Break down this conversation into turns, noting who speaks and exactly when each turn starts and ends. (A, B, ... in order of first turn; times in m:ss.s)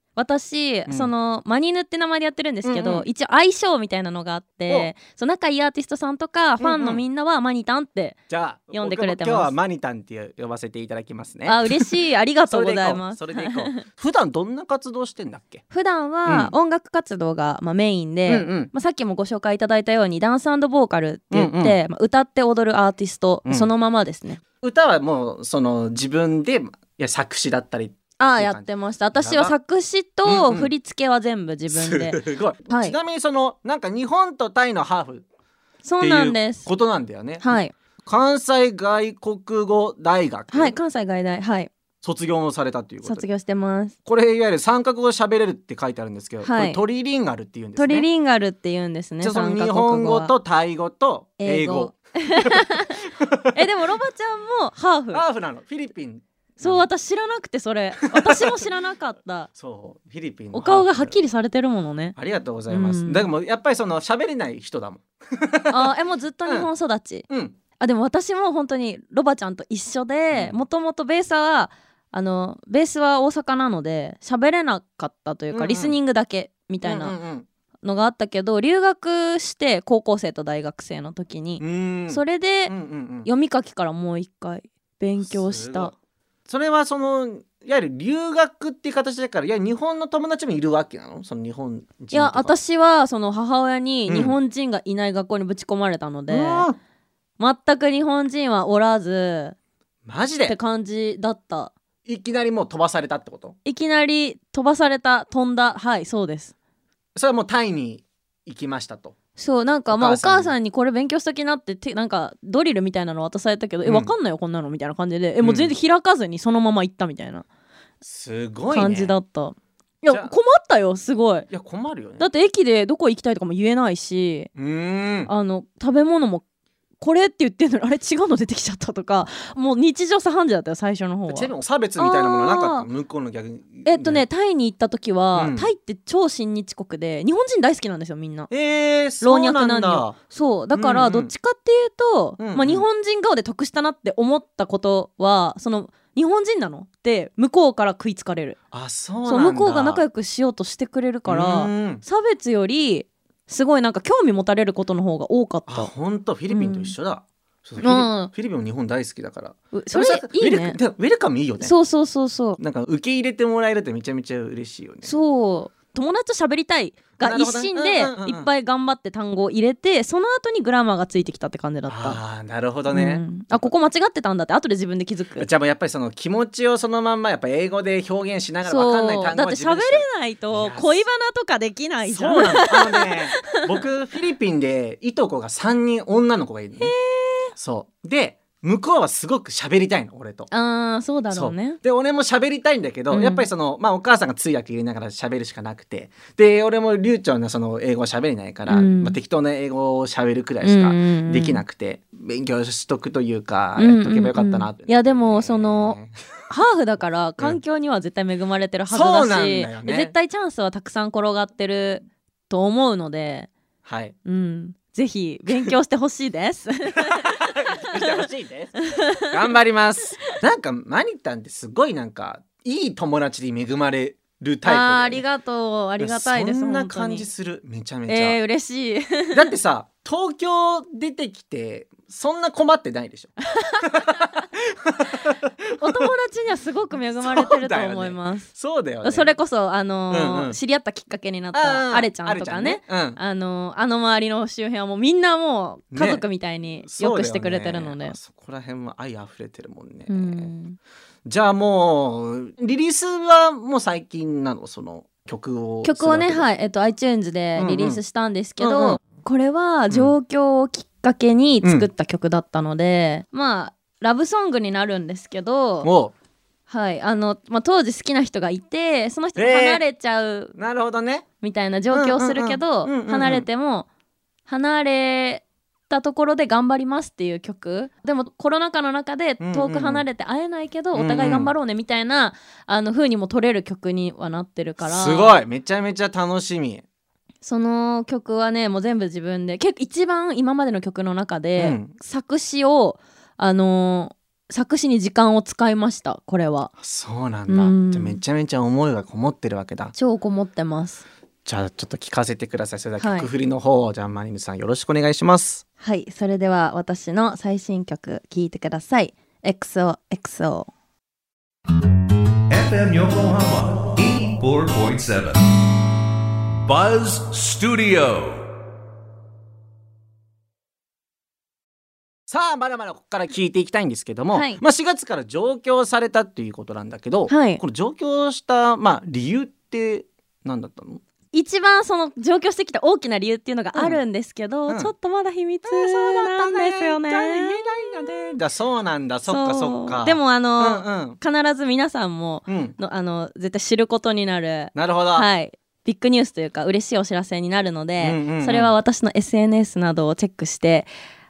0:00.2-0:08.2 A
0:02.6-0:03.0 B
0:06.6-0:07.0 B
0:08.3-0:11.8 B
0:08.7-0:09.5 A
0:11.4-0:13.8 A
0:12.5-0:15.6 B
0:15.7-0:24.4 A
0:16.2-0:16.5 B
0:18.3-0:18.7 B
0:21.3-0:21.8 B
0:24.6-0:29.5 B
0:28.2-0:33.0 A
0:30.2-0:30.7 B
0:31.7-0:35.2 B
0:35.8-0:36.7 A
0:36.0-0:40.8 B
0:37.4-0:37.7 A
0:40.5-0:41.7 A
0:42.0-0:43.2 B
0:43.0-0:43.9 A
0:44.0-0:48.1 B
0:46.4-0:46.8 A
0:47.8-0:50.3 A
0:49.2-0:53.6 B
0:51.4-0:55.2 A
0:55.1-0:56.9 B
0:56.6-0:59.5 A
0:58.0-0:58.4 B
0:59.6-1:01.2 B
1:00.5-1:02.2 A
1:02.2-1:05.9 B
1:02.7-1:03.3 A
1:05.7-1:07.3 A
1:07.3-1:07.5 B
1:07.8-1:17.1 A
1:10.3-1:10.6 B
1:15.5-1:16.0 B
1:16.8-1:17.4 B
1:17.8-1:25.9 A
1:21.6-1:23.3 B
1:25.2-1:25.9 B
1:26.5-1:32.5 B
1:32.1-1:36.6 A
1:34.1-1:34.4 B
1:36.3-1:36.8 B
1:37.4-1:39.6 A
1:40.0-1:40.6 B
1:40.4-1:41.7 A
1:42.0-1:43.6 B
1:43.6-1:46.5 A
1:47.2-1:49.1 B
1:49.4-1:57.4 A
1:49.9-1:50.5 B
1:53.8-1:54.1 B
1:55.4-1:55.7 B
1:58.0-1:59.2 B
1:58.7-2:01.5 A
2:01.5-2:02.3 B
2:02.2-2:04.5 A
2:04.6-2:05.3 B
2:05.3-2:06.4 A
2:07.0-2:12.9 A
2:11.3-2:14.2 B
2:13.8-2:18.5 A
2:15.3-2:15.7 B
2:18.5-2:20.2 B
2:19.2-2:28.6 A
2:20.7-2:21.3 B
2:22.4-2:22.8 B
2:28.7-2:30.0 B
2:29.2-2:35.9 A
2:31.2-2:32.0 B
2:35.7-2:41.7 B
2:36.5-2:36.9 A
2:37.8-2:38.3 A
2:39.7-2:40.8 A
2:41.6-2:42.6 A
2:42.6-2:45.1 B
2:45.0-2:52.2 A
2:47.2-2:48.5 B
2:51.9-2:53.7 B
2:52.9-2:55.5 A
2:55.4-3:01.0 B
2:58.6-3:03.6 A
3:02.0-3:06.9 B
3:06.8-3:07.5 A
3:07.5-3:10.5 B
3:10.5-3:11.8 A
3:11.3-3:26.4 B
3:13.1-3:13.5 A
3:18.7-3:19.2 A
3:20.6-3:21.6 A
3:23.8-3:26.0 A
3:26.5-3:33.5 A
3:28.9-3:30.1 B
3:33.8-3:34.1 B
3:34.2-3:38.1 A
3:37.0-3:45.2 B
3:38.8-3:39.3 A
3:44.6-3:47.3 A
3:46.0-3:48.4 B
3:48.1-3:49.5 A
3:49.3-3:54.3 B
3:53.4-3:54.4 A
3:54.8-3:55.4 B
3:55.8-3:58.5 A
3:57.2-3:59.3 B
3:59.0-4:08.2 A
4:00.1-4:00.6 B
4:01.5-4:03.2 B
4:05.9-4:06.2 B
4:06.8-4:10.5 B
4:10.1-4:10.8 A
4:11.2-4:16.5 B
4:15.8-4:25.9 A
4:17.6-4:18.0 B
4:18.6-4:19.0 B
4:25.8-4:26.1 B
4:26.7-4:30.5 A
4:29.4-4:29.8 B
4:30.5-4:31.2 B
4:31.4-4:33.9 A
4:31.9-4:33.5 B
4:34.5-4:45.4 A
4:39.4-4:40.0 B
4:40.9-4:41.5 B
4:44.8-4:46.8 B
4:47.4-4:56.7 A
4:51.6-4:51.9 B
4:56.8-4:59.9 B
4:57.5-4:58.2 A
4:59.9-5:01.0 A
5:01.4-5:05.6 B
5:03.0-5:03.3 A
5:05.8-5:10.7 A
5:12.5-5:15.4 C
5:16.6-5:18.4 C
5:22.3-5:31.0 B
5:24.3-5:24.6 A
5:27.3-5:27.6 A
5:31.3-5:38.4 A
5:33.7-5:34.0 B
5:35.6-5:41.2 B
5:39.2-5:50.9 A
5:42.5-5:42.8 B
5:44.7-5:45.3 B
5:48.0-5:48.7 B